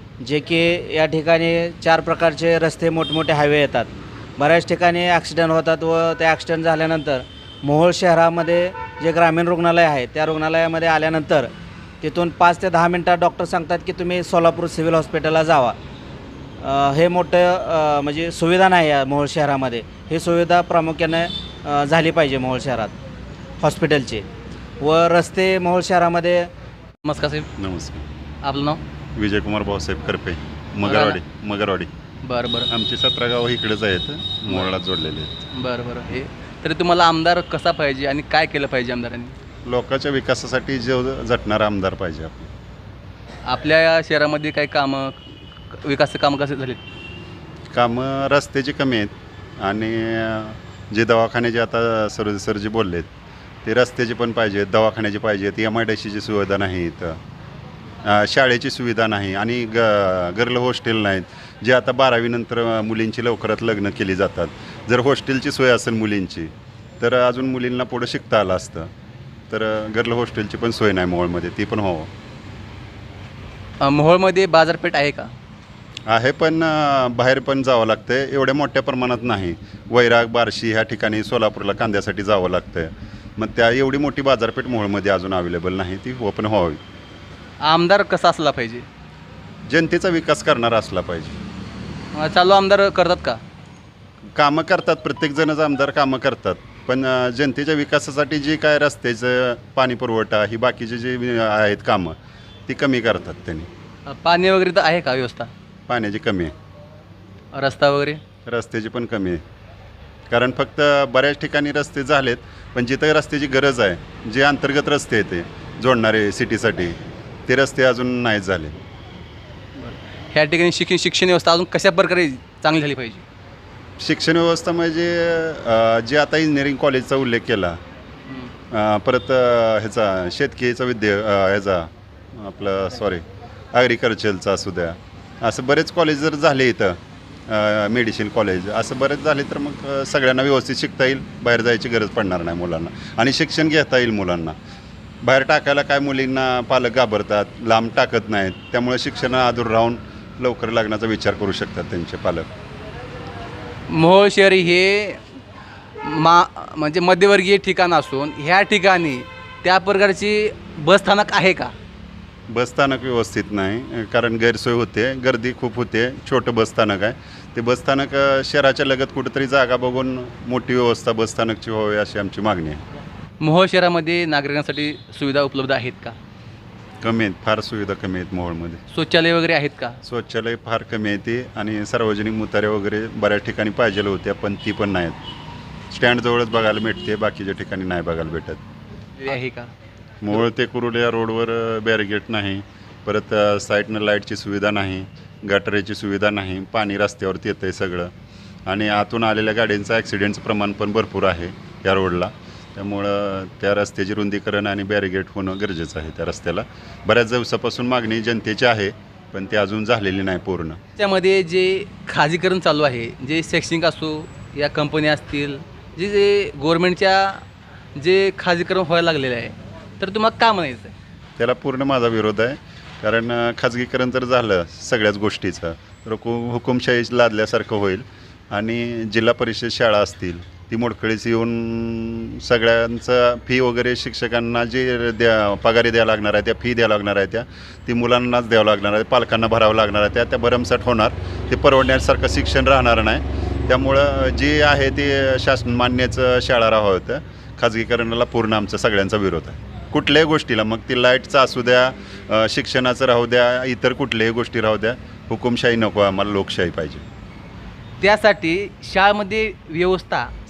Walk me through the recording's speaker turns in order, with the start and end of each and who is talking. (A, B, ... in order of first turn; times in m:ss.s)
0:00.2-0:11.5 A
0:12.0-0:15.8 A
0:16.6-0:22.9 A
0:23.6-0:24.3 A
0:24.8-0:26.5 A
0:27.0-0:27.5 B
0:27.6-0:28.1 C
0:28.4-0:28.8 B
0:29.2-0:31.9 C
0:30.8-0:31.2 B
0:32.2-0:32.7 B
0:32.7-0:35.5 C
0:34.5-0:34.7 B
0:35.5-0:39.4 B
0:39.7-0:42.5 C
0:43.4-0:46.8 B
0:47.7-0:53.1 C
0:53.6-0:57.2 C
0:58.0-1:08.9 C
1:09.5-1:12.1 C
1:13.8-1:15.3 B
1:16.1-1:26.8 C
1:27.6-1:28.9 B
1:29.7-1:31.4 C
1:32.1-1:33.4 B
1:34.4-1:43.7 C
1:44.1-1:45.5 B
1:45.9-1:46.5 C
1:47.5-1:48.2 B
1:48.5-1:49.4 C
1:50.3-1:58.8 C
1:59.8-2:03.2 B
2:04.0-2:07.8 C
2:08.3-2:08.5 B
2:08.7-2:13.2 C
2:13.7-2:24.6 C
2:25.2-2:32.5 C
2:33.9-2:35.2 B
2:36.0-2:41.7 B
2:42.5-2:52.8 C
2:53.4-2:56.2 B
2:57.0-2:58.8 C
2:58.9-3:00.0 B
3:00.0-3:05.2 C
3:05.9-3:08.6 C
3:09.2-3:09.7 B
3:10.2-3:18.1 C
3:18.7-3:30.8 C
3:31.0-3:37.4 B
3:38.0-3:41.0 B
3:41.4-4:17.0 C
4:18.0-4:20.3 B